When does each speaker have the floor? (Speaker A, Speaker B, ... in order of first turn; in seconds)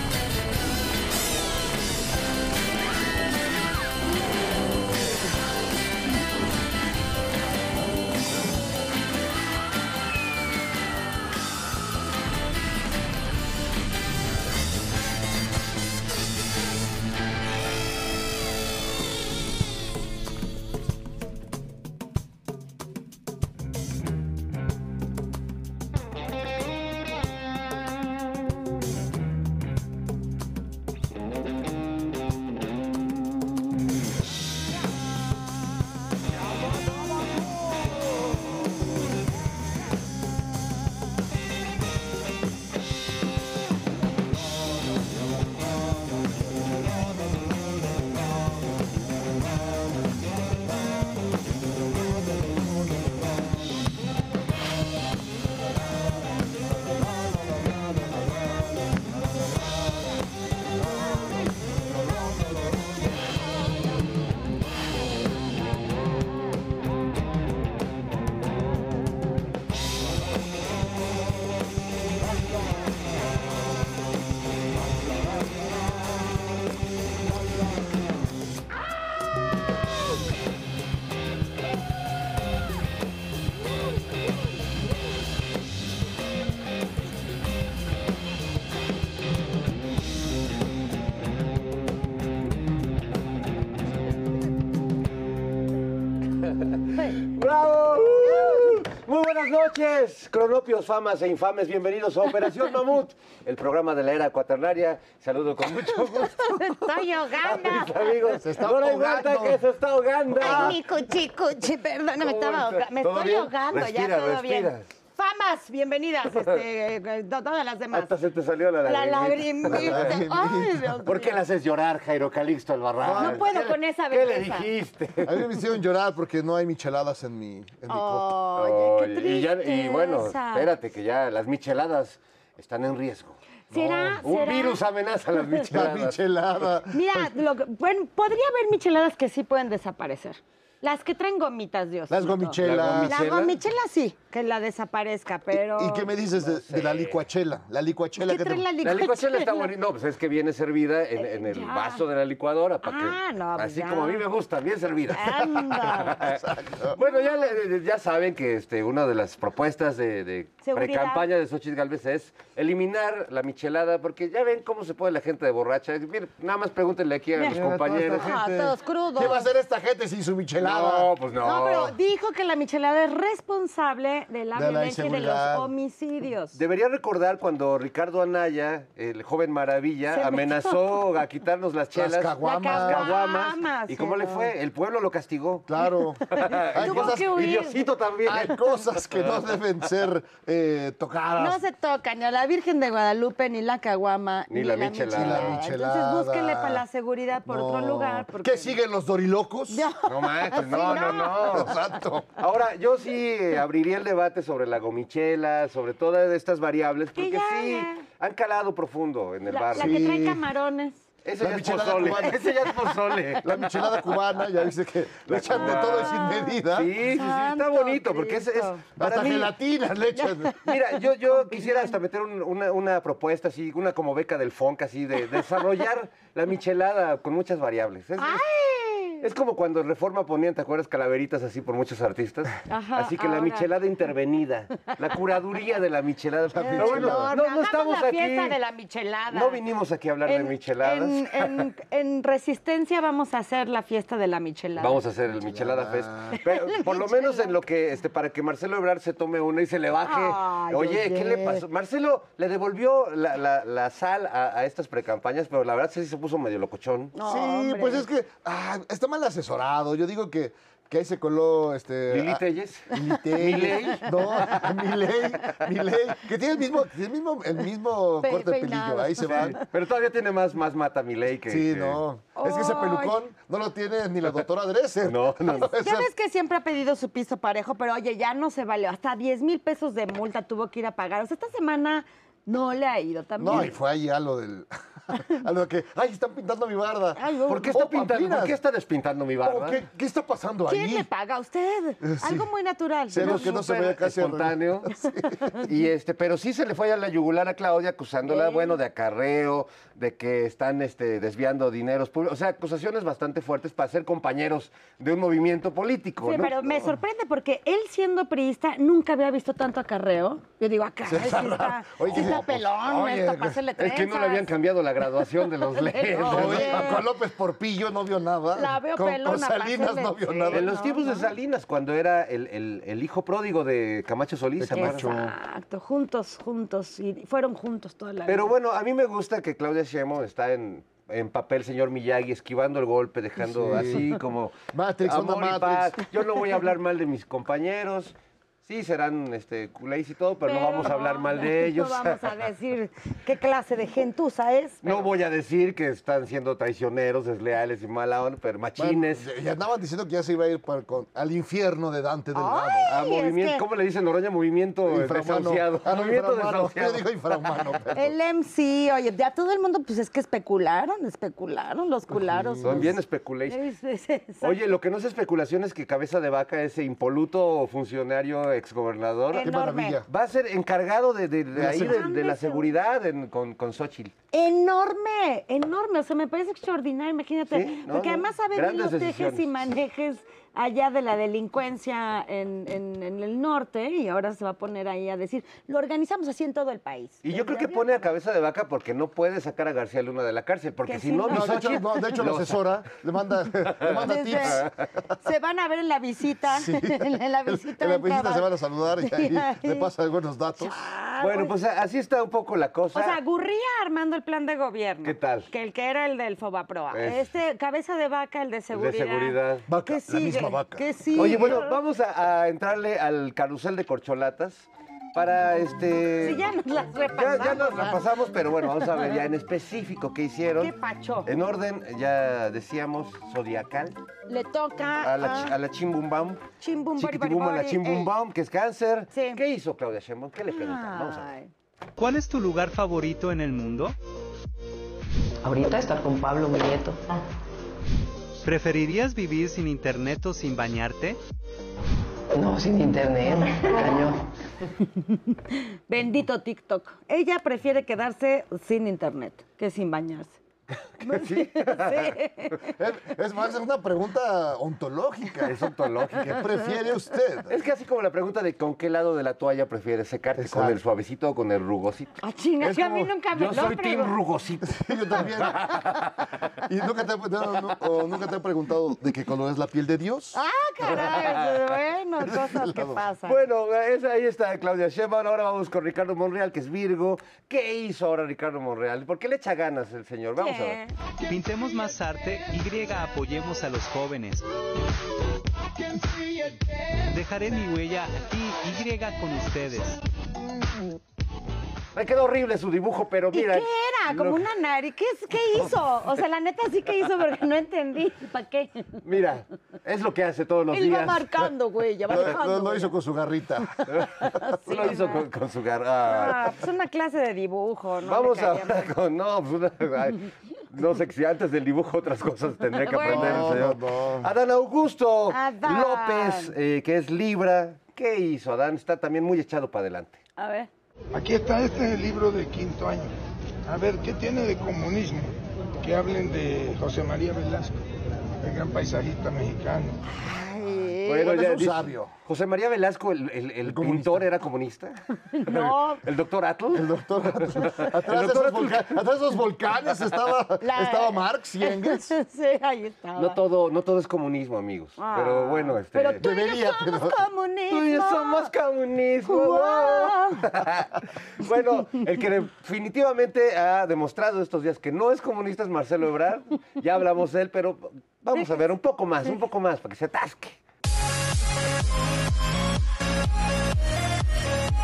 Speaker A: 97.2-106.5, 107.4-110.8, 112.2-114.9, 117.9-120.1, 121.0-125.5, 128.5-136.7, 142.6-143.5, 146.4-147.2, 148.8-168.3, 170.6-171.9, 176.5-185.7, 186.3-189.6, 194.5-195.6, 200.1-201.8, 202.4-210.1, 211.2-214.1, 215.3-219.5, 220.7-228.4, 229.2-238.6, 239.3-241.7, 244.8-257.1, 262.1-264.7, 269.2-272.0, 275.0-275.7, 287.5-289.8, 293.2-294.9, 295.6-306.9, 312.1-312.3, 313.8-317.0, 320.5-325.1, 328.2-342.2, 344.8-349.2, 352.9-357.7, 362.6-363.6, 364.4-369.5, 370.1-374.1, 377.5-379.6, 387.2-392.6, 393.8-394.7, 401.2-403.2, 405.0-405.5, 406.9-407.2, 408.7-409.6, 411.1-416.4, 417.1-420.7, 421.2-423.9, 425.0-426.4, 426.9-431.3, 451.0-452.2, 455.4-456.5, 457.5-462.1, 463.3-466.1, 470.8-471.7, 473.2-480.8, 491.9-494.4, 499.0-501.5, 503.9-506.5, 508.0-520.2, 531.0-539.0, 543.1-546.2, 547.7-560.6
Speaker B: 98.0-98.7, 106.4-108.2, 110.4-118.1, 118.8-121.3, 123.1-124.7, 127.9-130.7, 133.7-134.8, 136.9-146.1, 148.2-149.7, 151.2-152.0, 152.8-154.2, 155.1-156.2, 157.0-157.5, 160.6-161.2, 167.4-169.4, 171.4-176.6, 180.1-180.8, 182.4-184.5, 186.7-187.8, 191.4-198.8, 199.7-201.8, 207.2-208.0, 209.5-211.0, 216.1-218.8, 220.2-220.8, 221.3-221.9, 228.2-229.2, 232.7-233.7, 236.6-239.6, 240.2-245.0, 246.8-247.5, 250.0-251.6, 257.1-258.1, 268.2-269.6, 272.4-273.2, 275.8-283.7, 287.1-287.7, 290.7-293.6, 298.2-298.8, 306.2-314.5, 315.6-317.1, 318.5-321.3, 324.7-328.5, 340.4-345.1, 352.3-353.6, 357.9-362.9, 363.5-364.6, 369.3-370.0, 371.7-372.7, 374.3-388.0, 390.9-391.8, 393.8-394.6, 395.2-398.5, 399.0-399.9, 400.6-401.5, 402.9-411.8, 416.2-418.1, 418.8-419.2, 420.5-421.3, 424.3-425.6, 426.6-428.1, 429.1-429.4, 430.5-431.5, 445.3-450.4, 451.0-453.0, 462.2-464.1, 470.3-473.4, 480.4-480.9, 493.3-499.0, 500.7-502.9, 504.4-505.2, 506.0-508.9, 512.8-513.6, 515.3-516.5, 520.4-520.7, 530.2-531.4, 535.3-536.0, 540.6-543.4, 545.0-548.5, 549.2-550.4
Speaker C: 108.4-109.6, 110.4-110.7, 119.6-120.7, 123.0-123.7, 125.2-128.4, 133.8-134.2, 135.7-137.0, 142.1-143.2, 145.8-148.7, 155.6-156.9, 167.5-171.1, 174.5-175.7, 181.9-183.2, 185.7-187.6, 188.2-191.6, 195.1-196.8, 197.5-199.8, 200.7-202.3, 209.7-210.4, 211.4-212.8, 213.4-216.9, 219.0-220.6, 236.6-237.3, 245.4-246.4, 257.2-262.4, 262.9-269.6, 271.5-276.0, 283.4-288.6, 289.4-291.1, 292.0-292.4, 293.1-295.4, 311.1-313.5, 316.1-320.7, 324.6-325.3, 333.4-334.2, 334.7-336.0, 348.8-352.9, 354.9-358.1, 362.1-362.9, 369.4-370.0, 371.6-372.0, 391.3-394.6, 396.5-400.8, 409.7-410.8, 452.8-455.5, 456.2-457.5, 460.4-460.8, 462.7-463.1, 464.8-466.0, 466.6-470.4, 472.5-472.9, 502.1-503.8, 513.0-514.3, 530.6-532.1, 533.6-534.2, 536.7-542.1, 546.2-547.2
Speaker D: 432.0-433.9, 438.4-441.2, 481.2-484.4, 487.1-490.0
Speaker E: 435.4-437.2, 442.3-444.3
Speaker F: 521.1-523.1, 523.7-527.7, 528.4-530.0